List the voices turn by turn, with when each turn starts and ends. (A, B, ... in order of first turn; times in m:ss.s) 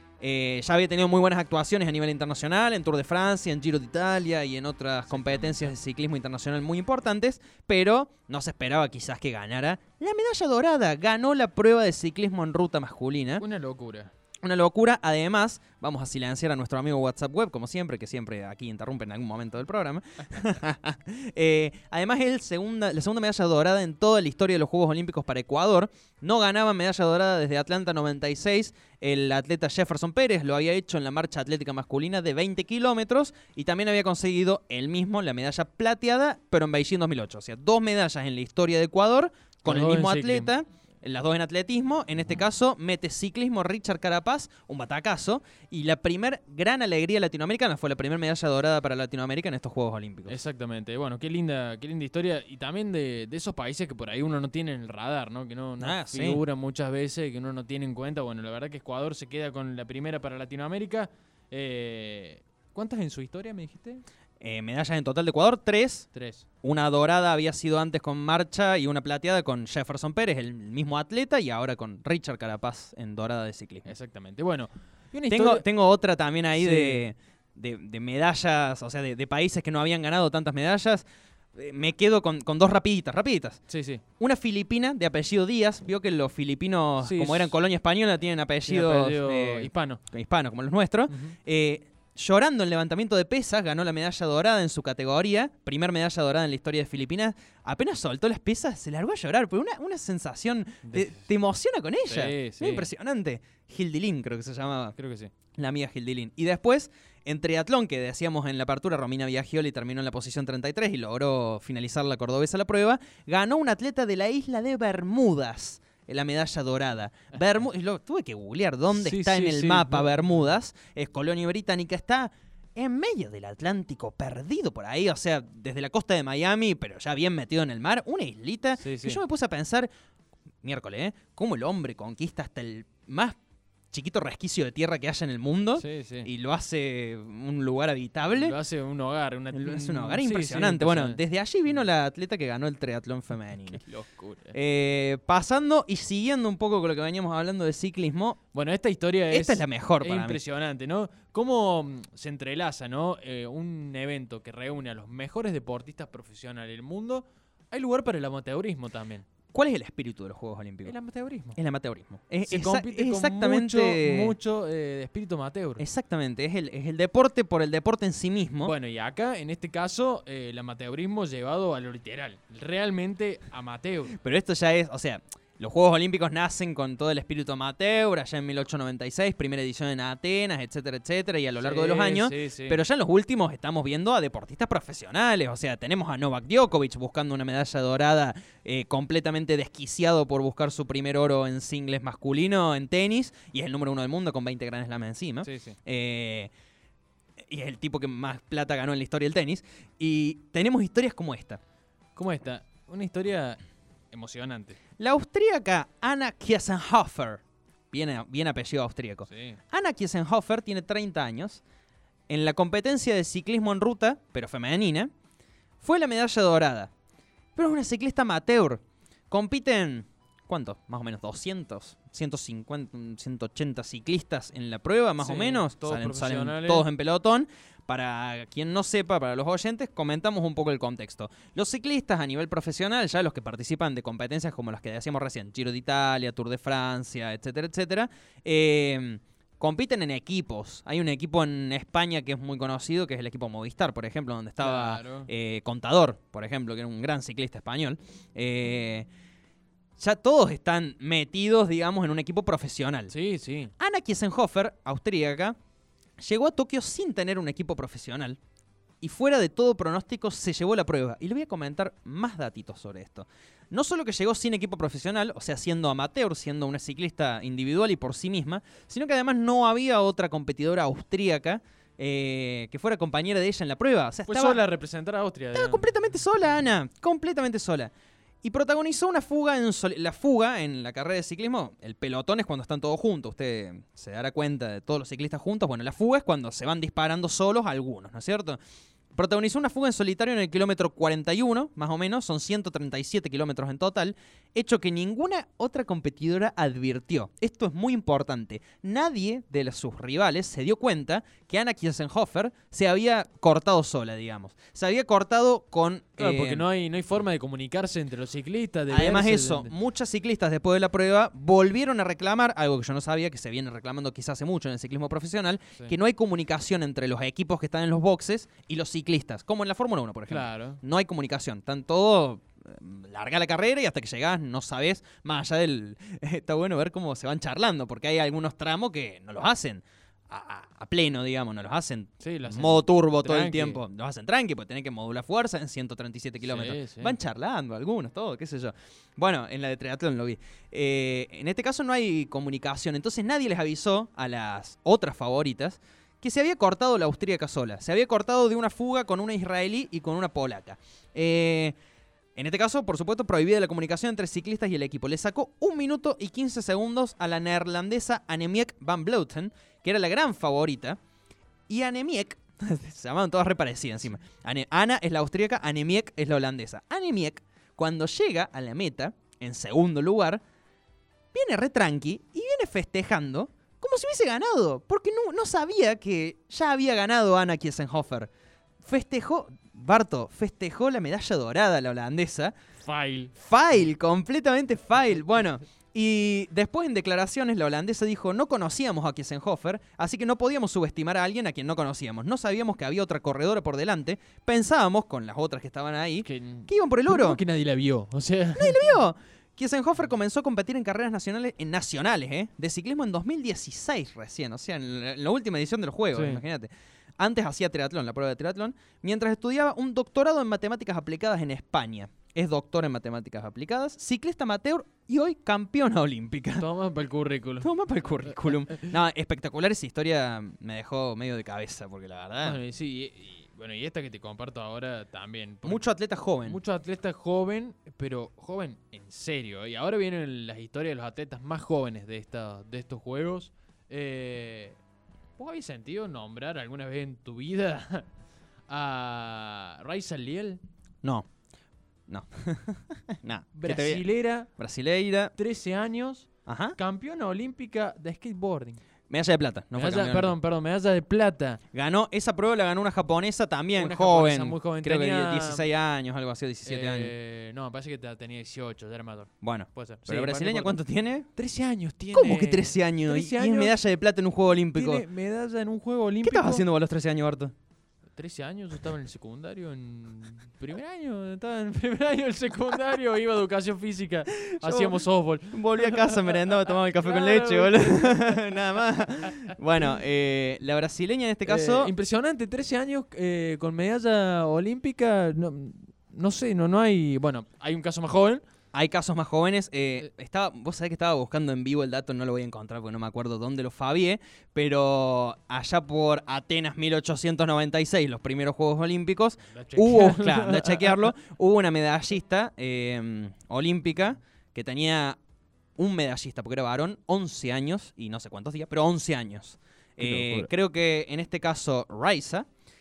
0:00.2-0:13.4 A
0:05.1-0:05.8 B
0:13.4-0:14.1 B
0:14.4-0:50.4 A
0:39.7-0:40.5 B
0:50.3-1:04.0 B
0:55.8-0:56.4 A
1:04.4-1:06.1 A
1:06.1-1:06.4 B
1:06.6-1:13.9 A
1:13.8-1:15.6 B
1:15.3-1:23.6 A
1:16.6-1:17.0 B
1:23.7-1:24.0 B
1:24.2-1:45.0 A
1:27.0-1:27.5 B
1:28.7-1:30.0 B
1:31.1-1:31.4 B
1:40.8-1:41.3 B
1:42.0-1:42.9 B
1:45.0-1:45.3 B
1:45.6-2:09.9 A
1:58.9-2:00.3 B
2:08.8-2:09.2 B
2:10.6-2:13.4 A
2:13.9-2:18.6 A
2:15.8-2:16.3 B
2:18.3-2:21.2 B
2:19.5-2:23.8 A
2:23.7-2:24.6 B
2:24.5-2:28.4 A
2:28.5-2:39.3 B
2:29.3-2:30.4 A
2:39.5-2:41.0 A
2:40.8-2:41.6 B
2:41.6-2:44.4 A
2:42.4-2:45.8 B
2:45.8-2:48.7 A
2:48.6-2:54.2 B
2:54.2-3:16.5 A
3:01.6-3:02.8 B
3:15.4-3:15.8 B
3:17.4-3:21.6 A
3:22.2-3:23.6 B
3:24.1-3:24.8 B
3:25.0-3:31.6 A
3:29.3-3:29.6 B
3:32.3-3:35.1 A
3:35.8-3:36.9 A
3:37.6-4:09.1 A
3:45.2-3:46.8 B
4:04.6-4:05.3 B
4:10.0-4:13.1 A
4:13.1-4:13.7 B
4:13.8-4:15.6 A
4:16.2-4:18.4 A
4:19.0-4:34.6 A
4:34.3-4:35.8 B
4:35.5-4:37.9 A
4:38.4-4:48.6 A
4:49.1-5:06.7 A
5:06.2-5:09.7 B
5:08.9-5:51.8 A
5:20.3-5:20.8 B
5:32.2-5:33.8 B
5:36.4-5:37.2 B
5:52.4-6:01.0 A
6:01.7-6:10.4 A
6:11.3-6:18.3 A
6:18.8-6:22.5 A
6:22.8-6:23.3 B
6:23.4-6:37.4 A
6:36.2-6:39.0 B
6:38.6-6:56.7 A
6:46.1-6:46.4 B
6:56.6-6:58.9 B
6:57.6-7:02.6 A
7:02.4-7:05.8 B
7:05.6-7:06.6 A
7:06.4-7:14.8 B
7:15.4-7:18.1 B
7:18.7-7:20.6 B
7:21.0-7:21.3 A
7:22.1-7:25.3 A
7:23.6-7:24.5 B
7:25.3-7:28.8 B
7:26.5-7:26.8 A
7:29.1-7:30.3 A
7:29.7-7:31.6 B
7:31.7-7:37.1 A
7:33.8-7:35.7 B
7:36.6-7:40.8 B
7:39.4-7:41.3 A
7:41.3-7:43.8 B
7:42.1-7:45.0 A
7:44.7-7:46.6 B
7:46.2-7:47.5 A
7:48.2-7:58.4 B
7:54.5-8:01.9 A
8:01.5-8:08.4 B
8:08.7-8:25.2 A
8:19.5-8:21.1 B
8:25.8-8:32.5 A
8:30.0-8:30.5 B